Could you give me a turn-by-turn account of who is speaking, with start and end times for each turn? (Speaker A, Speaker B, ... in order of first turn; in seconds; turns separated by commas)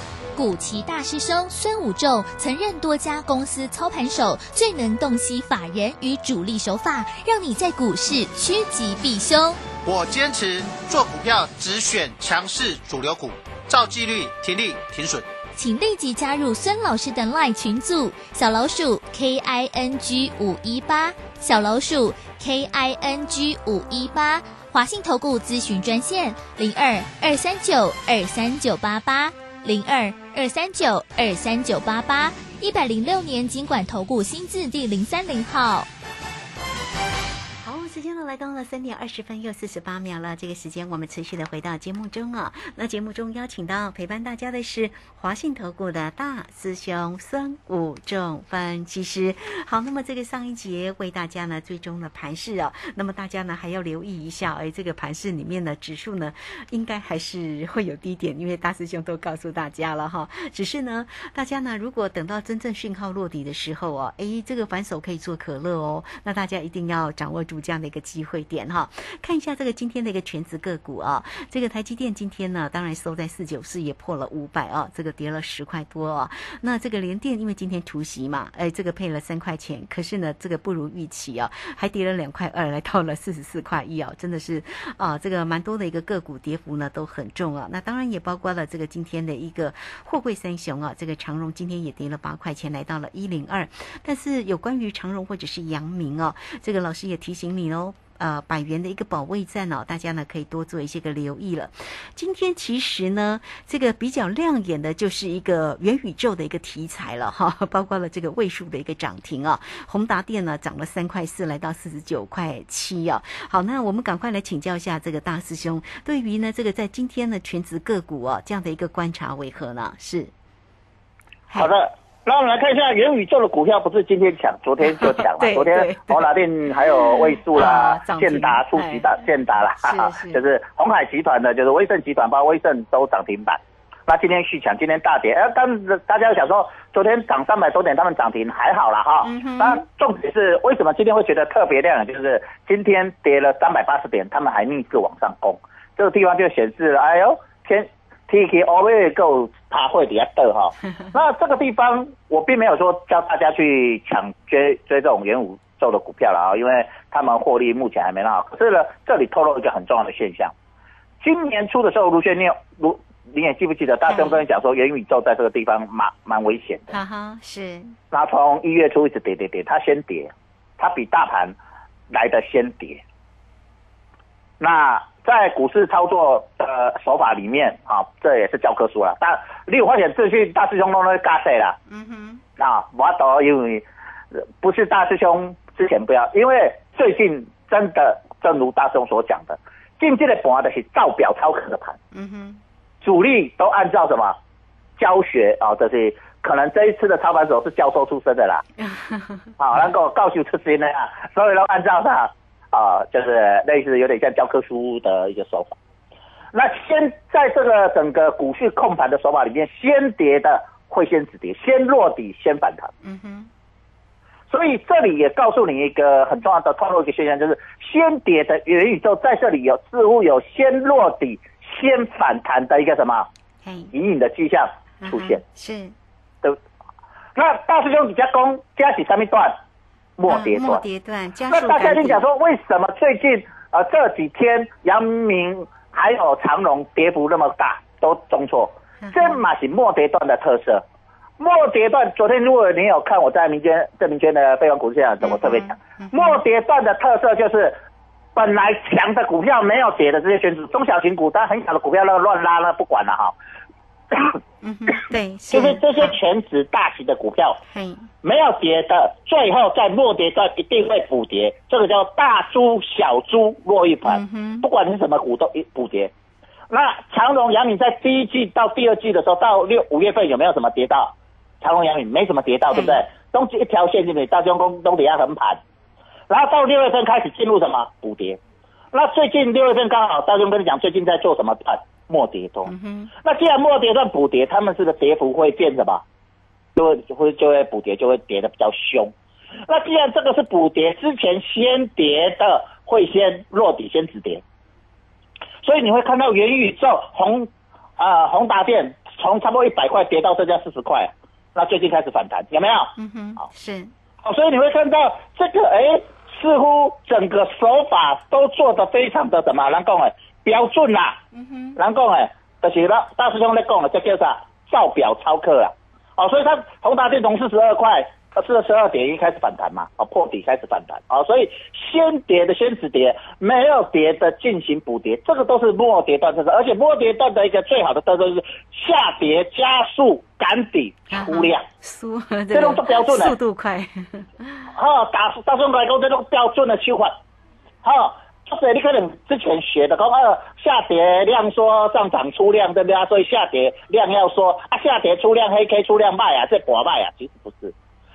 Speaker A: 0.3-9.6, Speaker B: 9.8-15.2, Speaker A: 15.6-35.9, Speaker C: 37.6-120.3, Speaker D: 121.5-160.5, Speaker C: 124.8-129.1, Speaker C: 129.8-130.4, Speaker C: 139.2-139.8, Speaker D: 161.2-166.9, Speaker C: 164.1-164.4, Speaker C: 166.9-168.0, Speaker D: 168.1-171.6, Speaker D: 172.1-173.0, Speaker D: 174.6-181.8, Speaker C: 181.9-182.4, Speaker D: 182.6-183.8, Speaker D: 184.6-192.0, Speaker C: 192.1-192.6, Speaker D: 193.0-194.4, Speaker D: 195.0-198.6, Speaker C: 198.8-199.5, Speaker D: 199.6-205.8, Speaker D: 206.5-212.9, Speaker C: 213.0-213.5, Speaker D: 214.5-223.3, Speaker C: 223.6-223.9, Speaker D: 223.9-225.4, Speaker C: 225.0-225.9, Speaker D: 227.3-229.6, Speaker D: 230.2-230.8, Speaker C: 230.3-232.2, Speaker D: 231.5-240.8, Speaker C: 239.0-239.4, Speaker D: 241.4-247.8, Speaker C: 245.2-246.4, Speaker D: 248.3-253.3, Speaker D: 254.1-254.4, Speaker C: 254.6-256.1, Speaker D: 255.5-257.6, Speaker C: 257.7-258.1, Speaker D: 258.2-266.1, Speaker C: 264.0-264.7, Speaker D: 266.7-275.6, Speaker C: 272.7-273.0, Speaker D: 276.3-278.4, Speaker D: 278.9-282.7, Speaker C: 282.6-283.1, Speaker D: 283.2-286.0, Speaker D: 286.8-289.1, Speaker D: 289.7-294.4, Speaker D: 295.6-302.9, Speaker C: 303.0-303.9, Speaker D: 304.2-311.2, Speaker C: 311.3-311.8, Speaker D: 311.8-331.6, Speaker C: 331.1-334.7, Speaker D: 332.5-333.3, Speaker D: 334.7-337.1, Speaker D: 337.8-347.7